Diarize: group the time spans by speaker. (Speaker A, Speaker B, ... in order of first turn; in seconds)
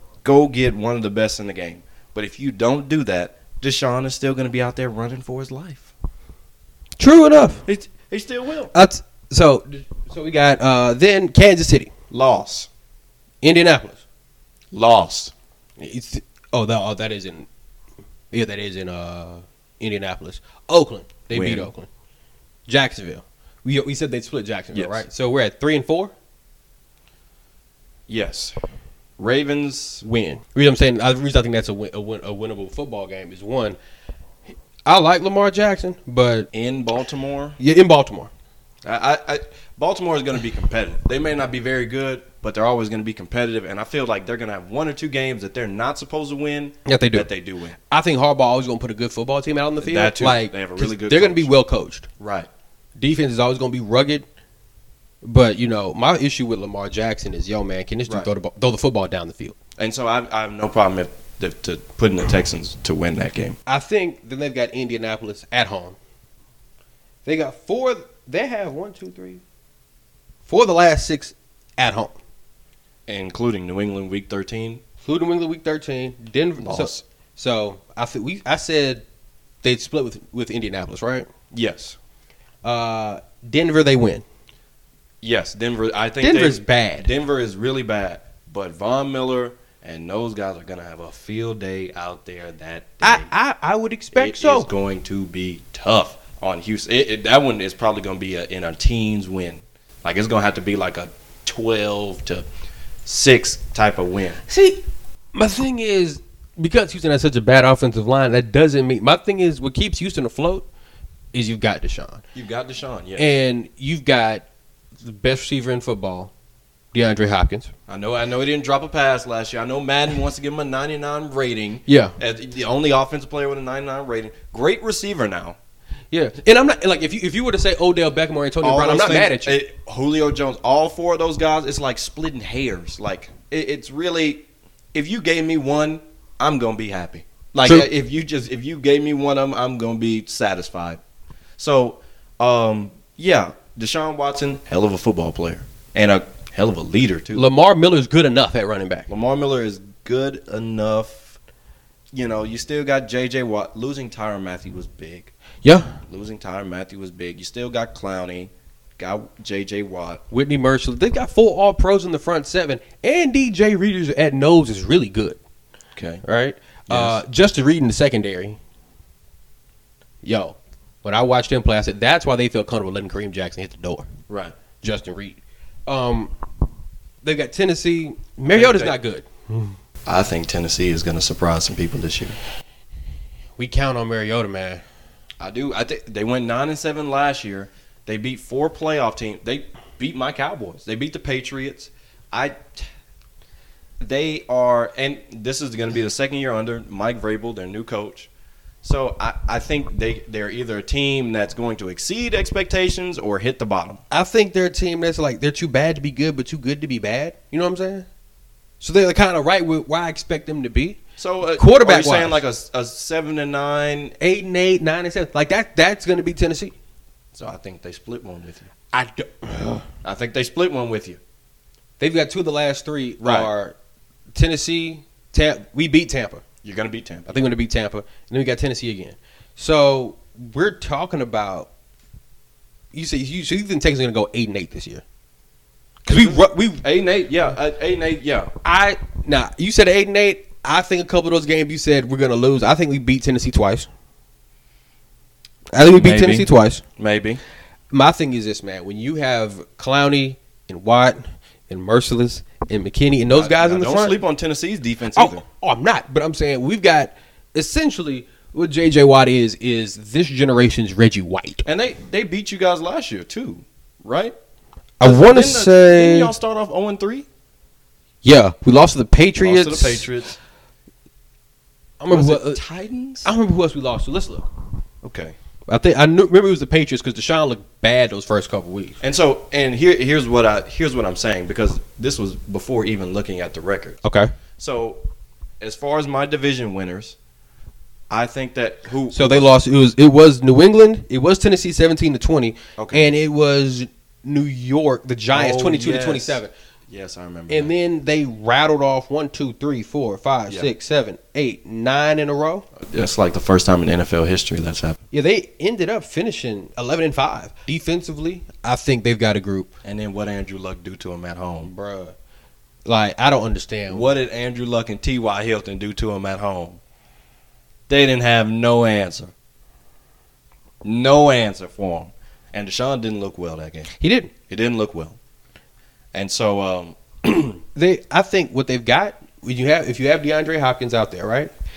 Speaker A: 0.2-5.9, 7.7-8.7, 12.1-12.7, 14.7-15.3, 21.3-21.7, 24.7-25.1, 28.1-28.6, 29.2-30.0, 36.5-37.6, 38.8-47.8, 49.8-51.5, 52.2-52.5, 59.8-63.6, 73.1-74.8, 76.6-77.0, 81.5-82.0, 85.2-93.3, 94.1-102.5, 103.0-104.4, 112.3-113.4, 117.9-125.6, 128.6-141.0, 141.6-147.5, 149.1-151.4, 152.1-155.3, 156.1-160.2, 165.9-166.2, 166.9-167.2, 174.3-174.6, 178.5-179.0, 180.1-182.4, 185.4-192.9, 194.0-198.3, 198.8-204.0, 211.2-214.2, 217.3-218.7, 220.0-221.2, 223.2-223.5, 226.6-227.3, 236.1-238.5, 245.9-247.4, 253.3-255.4, 261.6-264.4, 265.0-267.3, 269.4-270.4, 272.1-273.3, 275.0-275.4, 279.0-284.0, 284.6-285.0, 285.6-287.2, 288.1-289.5, 292.8-293.1, 295.3-297.7, 302.8-305.0, 309.8-311.7, 313.9-316.8, 317.9-319.3, 320.8-323.9, 324.5-325.2, 326.1-327.6
Speaker B: 7.0-7.6, 8.7-11.9, 13.4-14.0, 15.8-17.5, 18.3-21.9, 22.7-26.1, 30.0-33.8, 34.9-36.5, 37.6-38.3, 46.9-47.3, 47.9-52.1, 53.0-54.3, 55.2-59.6, 63.7-66.0, 67.2-69.4, 70.5-72.2, 75.0-79.0, 79.6-81.3, 82.6-84.2, 86.2-87.1, 93.0-94.7, 104.5-104.8, 105.3-110.7, 111.3-112.2, 113.2-114.5, 115.0-116.3, 116.9-117.7, 121.9-122.1, 126.1-129.6, 147.3-149.1, 155.6-156.0, 160.3-165.4, 166.2-168.6, 170.2-174.1, 174.8-176.3, 177.2-179.8, 183.6-184.8, 204.1-208.1, 208.8-211.0, 211.6-212.4, 214.2-216.7, 218.9-219.9, 222.0-223.8, 224.3-226.4, 227.3-231.7, 232.9-235.0, 236.1-236.8, 238.6-243.9, 245.7-246.8, 247.9-254.2, 255.1-261.7, 265.0-266.3, 268.2-270.1, 272.0-272.6, 273.2-274.5, 275.7-279.0, 284.0-284.3, 289.1-296.5, 297.5-302.7, 305.1-309.7, 311.6-312.1, 312.9-314.1, 323.9-324.3, 327.8-331.5